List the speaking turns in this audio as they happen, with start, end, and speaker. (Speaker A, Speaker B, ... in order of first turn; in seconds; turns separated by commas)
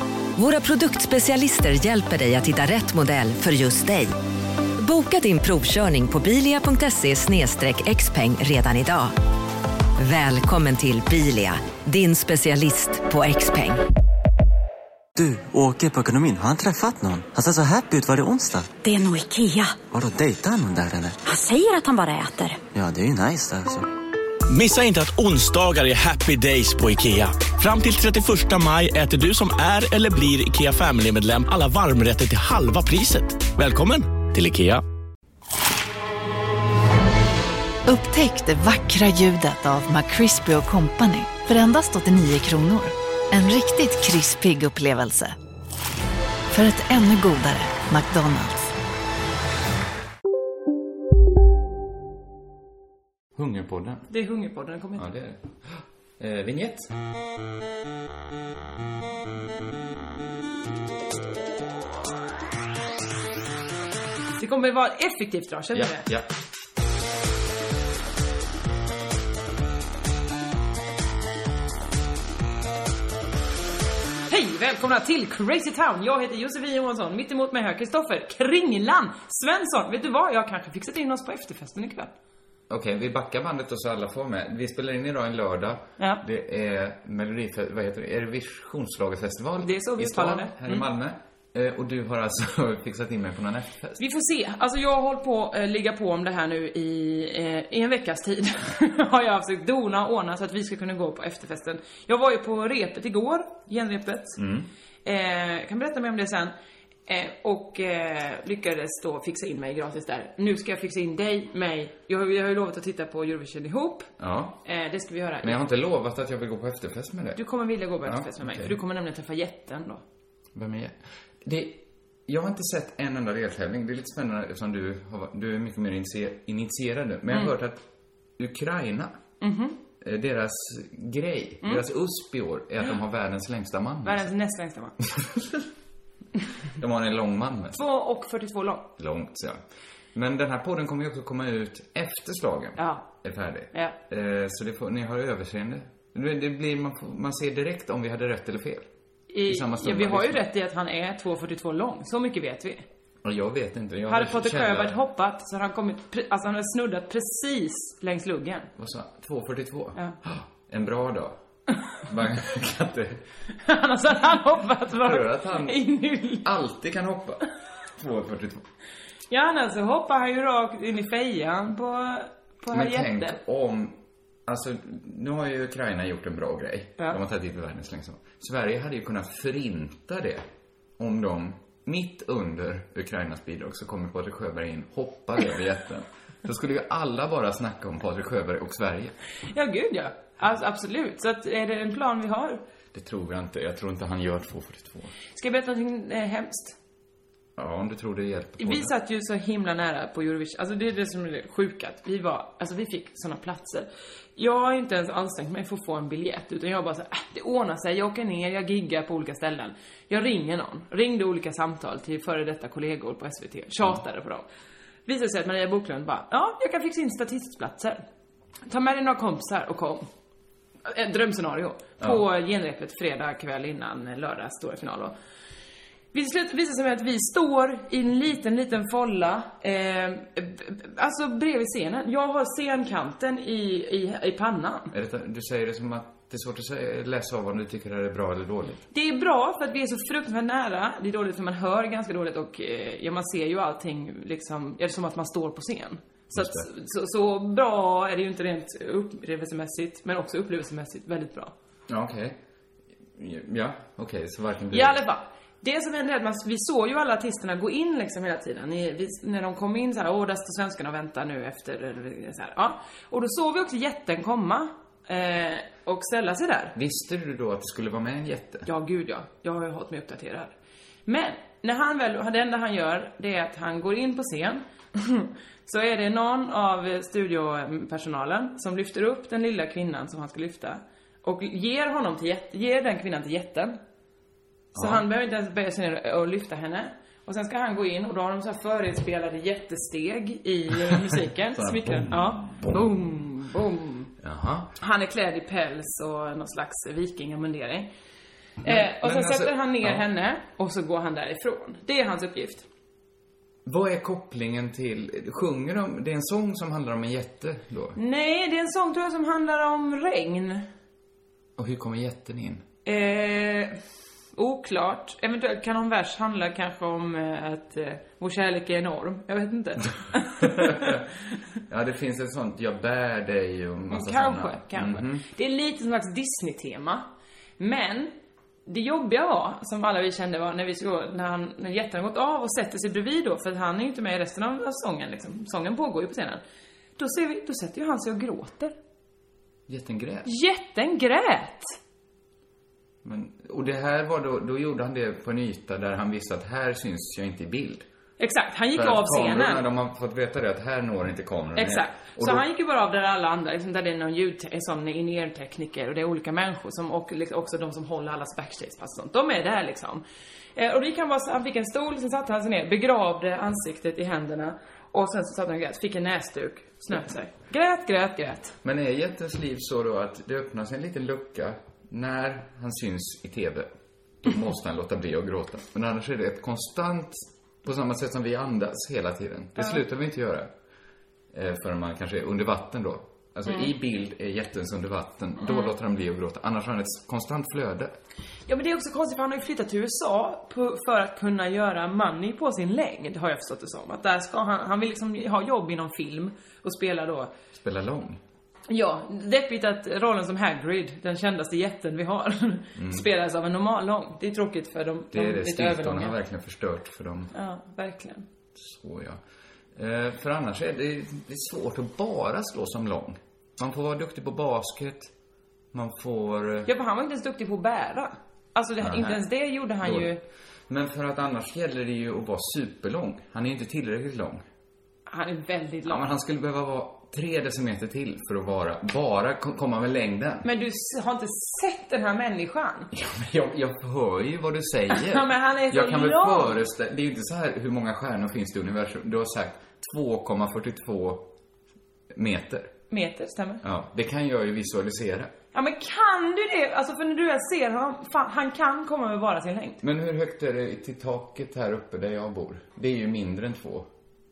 Speaker A: 0.3-4.1, Speaker A: 4.8-9.1, Speaker A: 10.0-13.8, Speaker B: 15.1-18.7, Speaker C: 18.8-19.8, Speaker B: 19.9-21.2, Speaker C: 21.2-22.6, Speaker B: 22.7-23.9, Speaker D: 24.5-34.8, Speaker E: 37.9-45.4, Speaker E: 46.5-48.7, Speaker F: 53.3-54.1, Speaker G: 54.1-55.1, Speaker F: 55.0-56.9, Speaker G: 64.3-66.1, Speaker F: 65.7-66.3, Speaker G: 74.3-82.1, Speaker F: 82.7-94.0, Speaker G: 89.6-90.8, Speaker G: 94.0-104.4, Speaker F: 104.3-104.7, Speaker G: 105.0-106.5, Speaker G: 107.1-114.1, Speaker F: 114.2-114.6, Speaker G: 114.6-115.6, Speaker F: 115.4-117.4, Speaker G: 117.3-120.0, Speaker F: 118.0-118.8, Speaker F: 120.5-127.8, Speaker F: 128.4-129.2, Speaker G: 129.4-129.8, Speaker F: 130.0-134.3, Speaker G: 134.0-134.9, Speaker F: 135.1-135.6, Speaker F: 136.8-137.8, Speaker G: 137.7-138.9, Speaker F: 139.0-139.6, Speaker F: 140.1-148.9, Speaker G: 142.8-143.1, Speaker G: 149.3-152.8, Speaker F: 149.5-150.4, Speaker F: 153.2-155.0, Speaker G: 154.1-158.7, Speaker F: 158.8-161.4, Speaker F: 162.1-163.2, Speaker G: 163.6-166.4, Speaker F: 164.9-165.8, Speaker F: 166.4-167.4, Speaker F: 168.0-168.6, Speaker G: 169.3-173.4, Speaker F: 172.7-180.4, Speaker F: 181.0-189.1, Speaker G: 189.5-192.6, Speaker F: 192.9-195.1, Speaker G: 195.3-196.8, Speaker F: 197.6-198.9, Speaker G: 198.6-214.4, Speaker G: 215.1-218.0, Speaker G: 218.7-220.1, Speaker G: 220.8-225.1, Speaker G: 226.1-234.9, Speaker F: 234.9-238.8, Speaker G: 238.9-251.5, Speaker F: 246.3-246.7, Speaker F: 251.9-252.4, Speaker F: 253.2-255.0, Speaker G: 254.7-266.7, Speaker F: 266.8-268.7, Speaker G: 268.6-270.5, Speaker G: 271.1-283.8, Speaker F: 284.7-285.0, Speaker G: 284.8-294.1, Speaker F: 291.5-292.7, Speaker F: 294.2-294.7, Speaker G: 294.8-297.9, Speaker F: 298.6-300.1, Speaker G: 298.6-302.6, Speaker F: 303.6-308.0, Speaker G: 307.9-310.6, Speaker F: 311.6-312.6, Speaker G: 312.8-313.7, Speaker G: 314.4-321.0, Speaker F: 320.4-321.0, Speaker F: 321.7-325.2, Speaker G: 323.9-327.1, Speaker G: 327.6-328.1, Speaker G: 328.7-336.4, Speaker G: 337.0-338.7, Speaker F: 339.7-340.3, Speaker G: 340.2-341.8, Speaker F: 343.0-347.9, Speaker G: 348.2-349.6, Speaker F: 348.7-352.4, Speaker G: 351.6-360.0, Speaker G: 360.6-368.6, Speaker F: 368.6-373.7, Speaker F: 374.2-380.5, Speaker G: 379.6-379.8, Speaker F: 381.3-387.9, Speaker G: 388.5-397.3, Speaker F: 397.5-398.2, Speaker G: 398.7-406.1, Speaker F: 402.8-403.1, Speaker F: 405.1-407.3, Speaker G: 407.3-408.2, Speaker F: 408.5-409.2, Speaker F: 409.7-415.1, Speaker F: 415.7-416.7, Speaker G: 416.6-420.2, Speaker F: 418.8-419.2, Speaker F: 419.8-420.1, Speaker F: 420.7-424.4, Speaker G: 425.1-426.0, Speaker F: 425.9-430.5, Speaker G: 430.4-432.9, Speaker F: 432.9-441.3, Speaker G: 434.9-436.6, Speaker F: 442.1-442.7, Speaker G: 442.9-443.6, Speaker F: 443.6-445.3, Speaker G: 445.5-449.8, Speaker F: 449.8-453.9